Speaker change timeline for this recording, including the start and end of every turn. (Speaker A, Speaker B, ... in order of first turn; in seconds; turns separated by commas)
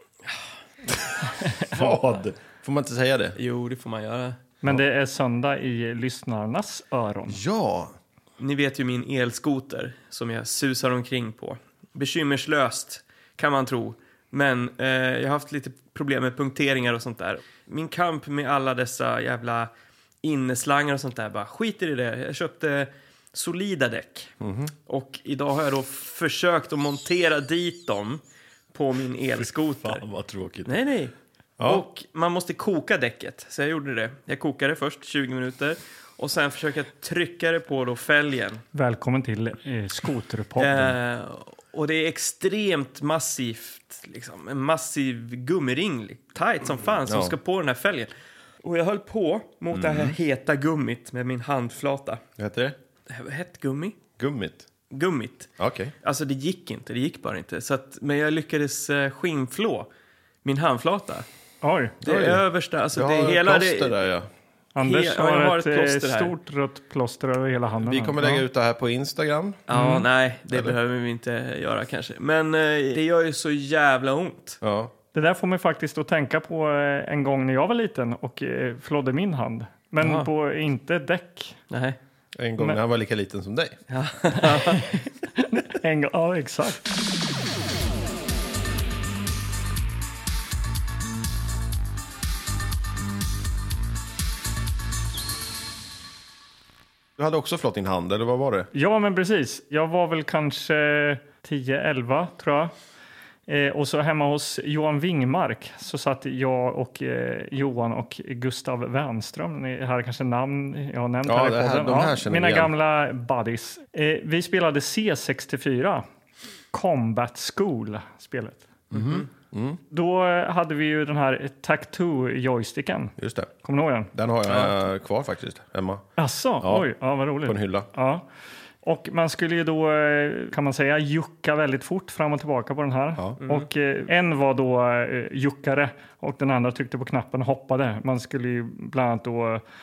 Speaker A: 1.4-2.0, Speaker B: 1.7-3.4, Speaker C: 3.4-4.4, Speaker A: 4.6-7.4, Speaker B: 7.3-7.9, Speaker C: 8.4-19.7, Speaker C: 20.2-24.3, Speaker B: 24.4-24.7, Speaker C: 24.9-28.2, Speaker C: 28.7-30.0, Speaker B: 29.4-30.7, Speaker C: 30.6-38.6, Speaker B: 31.6-31.8, Speaker A: 38.7-40.9, Speaker C: 40.6-48.1, Speaker B: 47.0-47.3, Speaker C: 48.6-52.2, Speaker B: 49.7-50.1, Speaker B: 52.4-52.7, Speaker C: 53.1-54.0, Speaker B: 54.2-54.6, Speaker C: 54.9-55.5, Speaker B: 55.6-55.9, Speaker C: 56.0-59.9, Speaker C: 60.4-61.2, Speaker A: 61.6-62.0, Speaker B: 62.0-62.4, Speaker C: 62.0-64.0, Speaker B: 62.9-64.3, Speaker A: 64.8-68.4, Speaker C: 64.8-66.3, Speaker B: 67.8-69.6, Speaker C: 69.7-74.6, Speaker A: 69.7-70.0, Speaker B: 74.6-74.9, Speaker A: 75.1-81.6, Speaker C: 80.0-80.3, Speaker C: 81.7-82.0, Speaker B: 82.4-83.8, Speaker C: 83.9-84.8, Speaker A: 84.5-84.8, Speaker A: 85.3-86.8, Speaker B: 97.2-98.7, Speaker A: 98.7-102.7, Speaker A: 103.5-116.0, Speaker B: 111.2-112.7, Speaker A: 116.7-118.7, Speaker B: 118.9-119.8, Speaker C: 118.9-119.2, Speaker A: 119.9-124.1, Speaker B: 123.2-123.5, Speaker B: 124.1-126.0, Speaker A: 126.2-128.3, Speaker B: 126.6-126.9, Speaker B: 127.4-127.9, Speaker A: 128.8-139.6, Speaker C: 133.4-133.7